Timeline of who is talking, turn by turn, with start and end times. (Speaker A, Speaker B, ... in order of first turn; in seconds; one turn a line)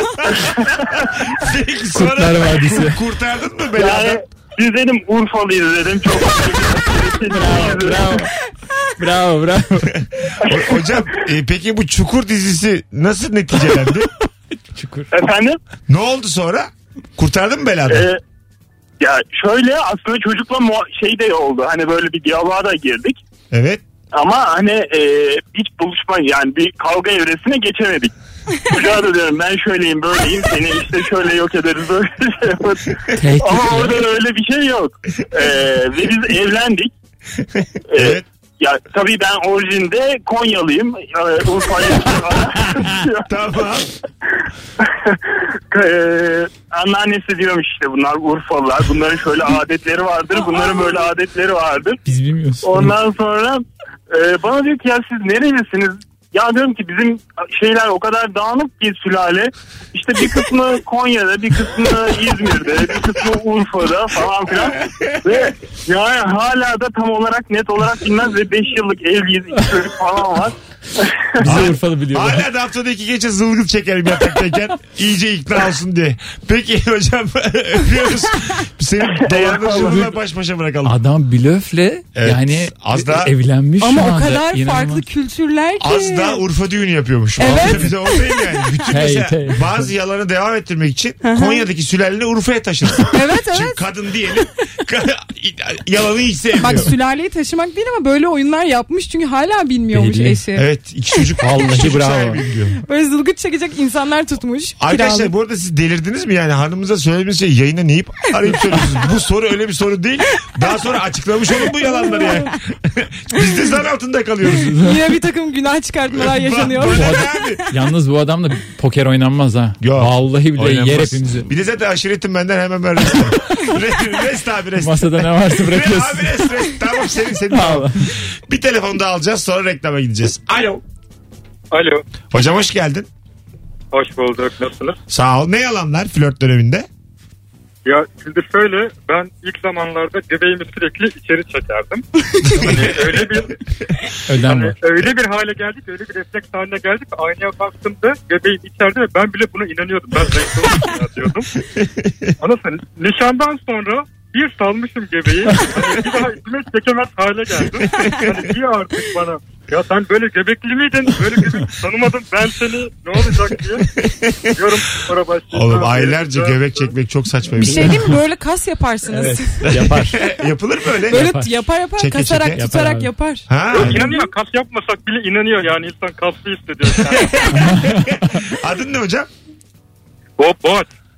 Speaker A: 0.4-0.9
Speaker B: 0.9-4.2
Speaker C: 1.9-3.0
Speaker A: 3.8-8.1
Speaker C: 7.3-8.3
Speaker C: 9.0-9.9
Speaker B: 9.9-14.1
Speaker C: 14.7-15.1
Speaker A: 15.1-15.6
Speaker B: 15.9-18.1
Speaker A: 17.9-18.2
Speaker A: 19.0-23.2
Speaker B: 23.5-23.8
Speaker A: 24.1-36.9
Speaker C: 33.1-34.0
Speaker B: 37.6-38.2
Speaker A: 37.9-43.2
Speaker B: 43.3-43.9
Speaker A: 44.8-52.0
Speaker C: 52.1-52.9
Speaker A: 52.6-71.4
Speaker B: 64.8-65.2
Speaker C: 71.4-72.5
Speaker B: 71.4-81.0
Speaker C: 80.8-85.0
Speaker B: 82.2-83.3
Speaker D: 83.8-86.4
Speaker B: 85.8-96.9
Speaker D: 87.4-88.8
Speaker C: 88.9-89.9
Speaker D: 91.2-91.7
Speaker D: 93.1-93.8
Speaker D: 96.6-100.7
Speaker C: 99.9-100.4
Speaker B: 100.5-102.8
Speaker C: 101.4-102.4
Speaker D: 102.8-105.3
Speaker B: 104.8-114.8
Speaker D: 111.8-112.5
Speaker C: 114.5-115.0
Speaker D: 114.7-117.5
Speaker B: 116.1-117.7
Speaker C: 116.8-121.5
Speaker B: 119.8-130.8
Speaker C: 124.8-126.4
Speaker C: 127.5-128.1
Speaker E: 131.7-132.0
Speaker B: 132.3-133.1
Speaker E: 133.9-135.0
Speaker B: 135.1-136.9
Speaker E: 137.9-143.6
Speaker B: 142.6-143.3
Speaker C: 144.3-144.8
Speaker E: 144.4-151.5
Speaker B: 151.8-152.3
Speaker E: 152.4-163.9
Speaker B: 158.0-158.3
Speaker B: 163.9-164.6
Speaker E: 164.6-166.9
Speaker B: 165.5-168.0
Speaker D: 167.6-169.7
Speaker C: 167.7-167.9
Speaker C: 169.1-170.2
Speaker B: 169.7-171.3
Speaker D: 171.1-173.5
Speaker C: 171.1-171.6
Speaker B: 172.0-172.6
Speaker C: 172.6-173.1
Speaker B: 173.5-174.1
Speaker E: 173.7-177.7
Speaker C: 173.8-174.0
Speaker B: 177.0-179.3
Speaker C: 177.6-178.2
Speaker E: 180.4-180.9